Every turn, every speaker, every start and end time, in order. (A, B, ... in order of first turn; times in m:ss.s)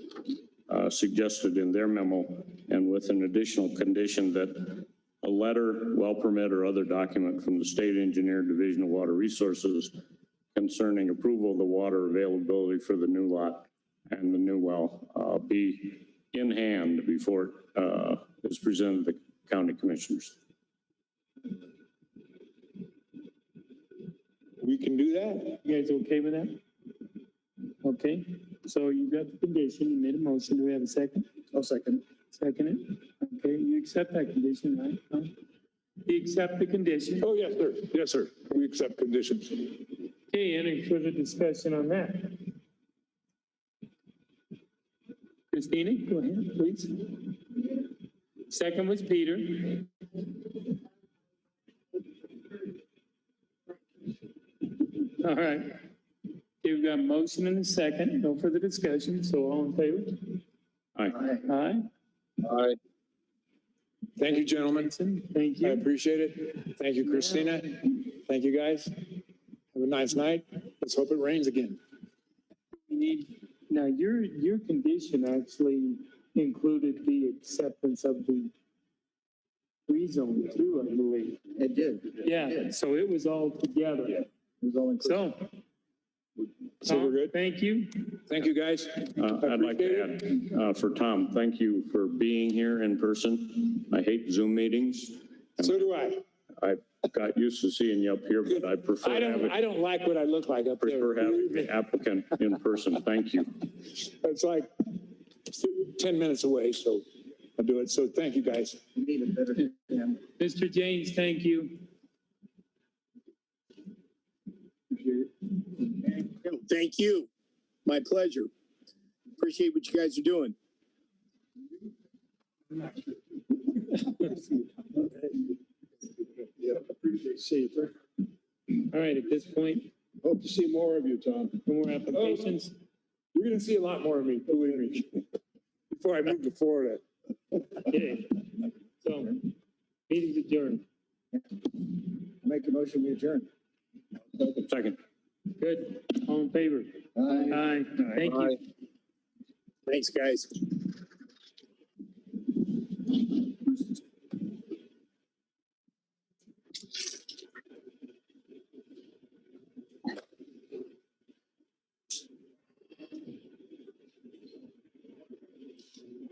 0:00.7-0:10.0 A
0:10.5-0:20.4 A
0:24.6-0:25.6 B
0:25.6-0:26.6 C
0:27.8-0:31.3 C
0:31.5-0:32.0 D
0:32.3-0:35.3 C
0:36.0-0:37.3 C
0:37.2-0:39.8 B
0:40.3-0:42.4 C
0:45.5-0:47.2 C
0:48.5-0:49.9 C
0:55.2-0:55.8 C
0:56.6-1:00.4 C
1:01.0-1:01.4 A
1:01.3-1:01.9 C
1:04.2-1:04.9 B
1:04.3-1:05.9 C
1:05.6-1:09.1 B
1:09.7-1:11.8 B
1:12.9-1:18.5 C
1:19.9-1:21.4 C
1:21.6-1:22.2 D
1:22.2-1:24.2 C
1:24.6-1:25.3 D
1:25.0-1:25.4 C
1:26.8-1:27.3 B
1:26.8-1:28.1 C
1:28.3-1:30.1 B
1:29.1-1:35.8 A
1:35.6-1:36.2 B
1:36.6-1:39.6 A
1:39.0-1:41.7 B
1:40.8-1:43.7 A
1:44.0-1:44.7 B
1:45.5-1:47.0 B
1:47.6-1:48.8 B
1:49.0-1:50.0 D
1:50.4-1:51.8 C
1:56.3-1:57.3 E
1:57.8-1:58.5 E
1:59.4-2:00.5 E
2:07.0-2:07.9 D
2:08.9-2:09.9 C
2:10.5-2:11.3 B
2:10.6-2:11.1 D
2:11.6-2:12.7 C
2:12.1-2:12.6 B
2:13.3-2:15.2 B
2:15.9-2:17.0 B
2:17.8-2:19.4 C
2:20.1-2:20.8 C
2:22.4-2:23.5 D
2:24.6-2:25.0 A
2:25.6-2:28.6 C
2:27.2-2:28.6 D
2:29.9-2:30.5 E